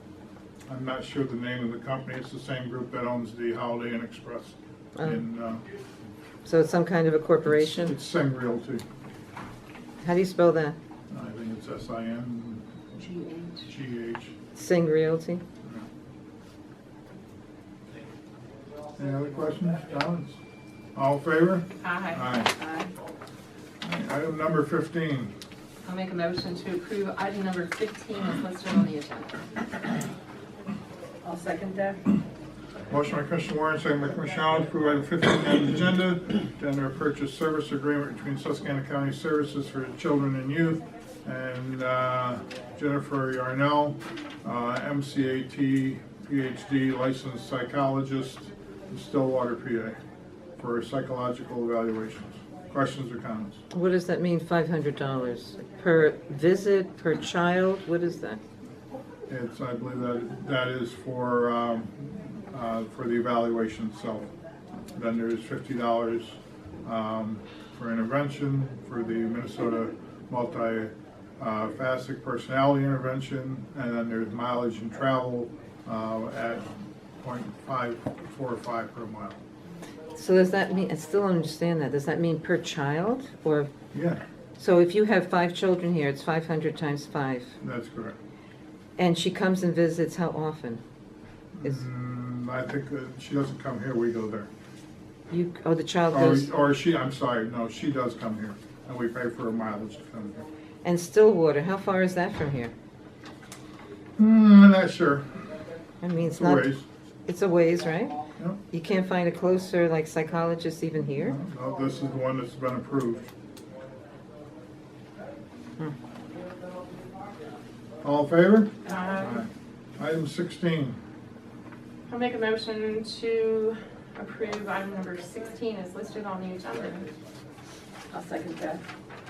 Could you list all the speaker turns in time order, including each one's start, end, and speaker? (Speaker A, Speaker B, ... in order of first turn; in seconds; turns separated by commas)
Speaker A: 0.7-5.6, Speaker B: 5.0-5.2, Speaker B: 6.4-8.0, Speaker A: 7.5-8.8, Speaker B: 10.0-10.8, Speaker A: 11.1-12.7, Speaker C: 13.0-13.6, Speaker A: 13.7-14.3, Speaker B: 14.5-15.4, Speaker A: 19.0-20.4, Speaker A: 20.9-22.5, Speaker C: 21.8-22.4, Speaker D: 22.6-22.9, Speaker A: 23.8-25.3, Speaker C: 25.8-29.7, Speaker D: 31.2-32.0, Speaker A: 32.9-50.0, Speaker A: 50.6-53.6, Speaker B: 53.7-58.4, Speaker A: 59.3-64.3, Speaker A: 64.9-76.7, Speaker A: 77.2-79.4, Speaker B: 80.1-83.7, Speaker A: 83.9-84.2, Speaker B: 84.6-87.5, Speaker A: 87.6-88.2, Speaker B: 89.0-90.8, Speaker A: 91.5-94.5, Speaker B: 95.3-96.5, Speaker A: 96.1-100.4, Speaker B: 100.8-102.7, Speaker A: 104.2-105.4, Speaker B: 106.0-106.7, Speaker A: 106.2-106.8, Speaker B: 107.3-108.2, Speaker B: 108.7-111.4, Speaker A: 111.2-113.3, Speaker A: 118.0-121.0, Speaker C: 118.9-119.5, Speaker C: 122.1-127.1, Speaker D: 128.1-128.8